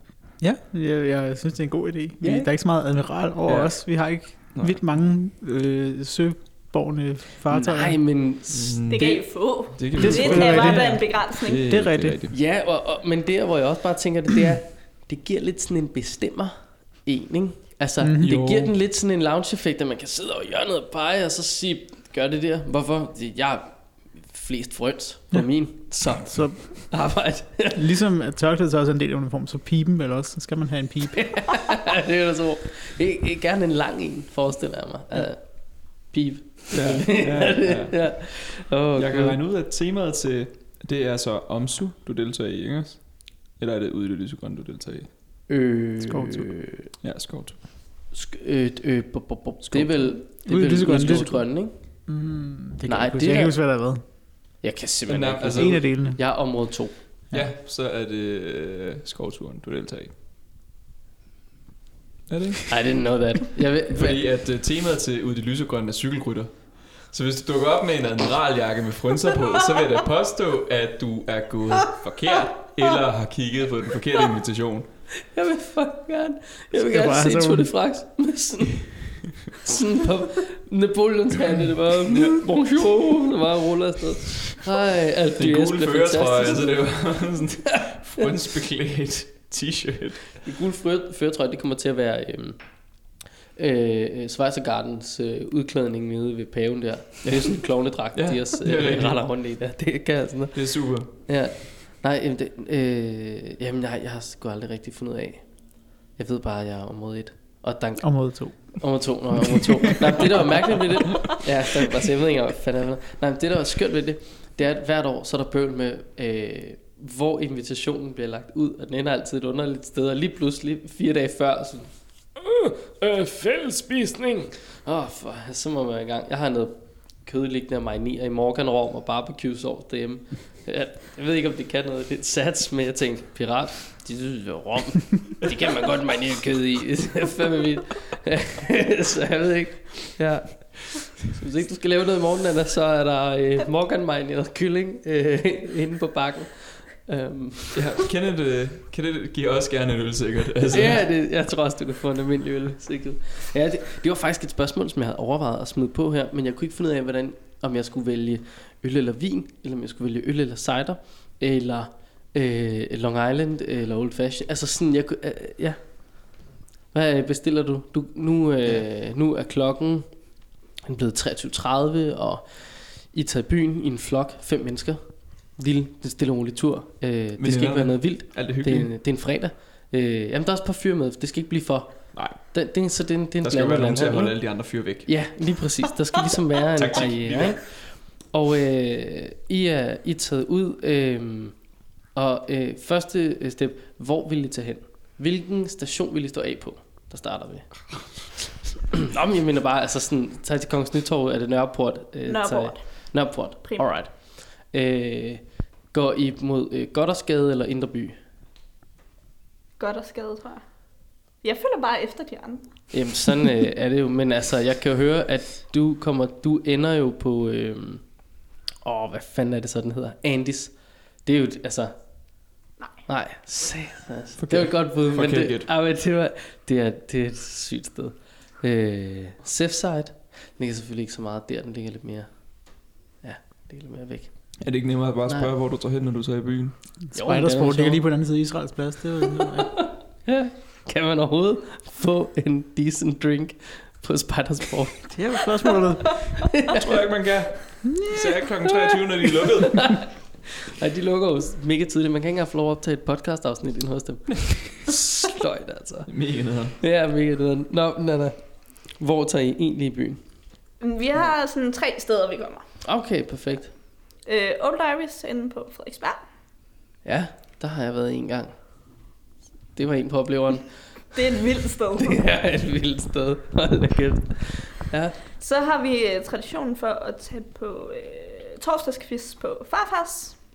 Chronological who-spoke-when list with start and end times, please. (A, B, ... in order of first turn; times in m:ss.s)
0:00.4-0:08.0 A
0:02.2-0:02.5 B
0:03.4-0:04.8 C
0:07.5-0:09.2 B
0:08.5-0:12.3 C
0:08.9-0:11.7 D
0:10.0-0:12.2 A
0:12.3-0:27.8 B
0:18.0-0:18.4 A
0:18.2-0:18.7 C
0:26.1-0:26.8 A
0:27.7-0:31.6 A
0:31.2-0:39.4 B
0:36.7-0:38.2 C
0:38.9-0:45.1 C
0:45.5-0:46.9 B
0:46.1-0:46.5 A
0:47.0-0:47.6 C
0:48.1-0:51.7 B
0:50.4-0:51.5 A
0:52.1-0:54.0 A
0:52.8-0:53.6 B
0:54.6-0:56.9 B
0:55.1-0:55.8 C
0:55.6-0:56.2 A
0:57.3-1:00.1 C
1:02.3-1:02.7 C
1:02.7-1:04.2 B
1:03.9-1:14.9 C
1:15.2-1:19.0 B
1:16.7-1:17.7 A
1:19.6-1:26.8 B
1:22.1-1:22.4 C
1:25.4-1:30.4 C
1:30.4-1:32.6 B
1:33.5-1:45.4 B
1:38.1-1:39.2 C
1:40.5-1:41.1 C
1:46.2-2:27.8 B
1:48.0-1:48.8 A
1:49.3-1:50.0 A
2:27.7-2:31.0 C
2:30.7-2:45.8 B
2:46.9-2:50.1 B
2:50.8-2:55.0 B
2:55.6-3:04.4 B
2:57.4-2:58.9 C
3:03.4-3:05.1 C
3:05.0-3:11.5 B
3:06.7-3:07.6 C
3:12.1-3:17.9 B
3:18.9-3:24.1 B
3:22.3-3:22.8 D
3:24.7-3:28.2 B
3:29.8-3:30.6 D
3:31.4-3:32.6 D
3:32.9-3:38.0 B
3:38.8-3:40.7 B
3:41.2-3:41.9 B
3:43.0-3:52.3 B
3:44.4-3:45.7 C
3:53.2-3:54.3 B
3:54.6-3:56.7 C
3:57.1-3:59.7 A
3:57.1-3:58.0 B
3:59.4-4:05.8 B
4:05.1-4:06.2 A
4:06.4-4:07.0 B
4:06.7-4:10.0 C
4:08.7-4:16.1 B
4:16.1-4:16.8 C
4:16.8-4:18.4 B
4:18.9-4:20.2 B
4:20.8-4:22.6 D
4:22.8-4:23.7 B
4:24.2-4:26.2 D
4:27.0-4:28.5 B
4:29.8-4:30.8 B
4:31.1-4:32.2 D
4:32.0-4:35.2 B
4:35.4-4:40.4 D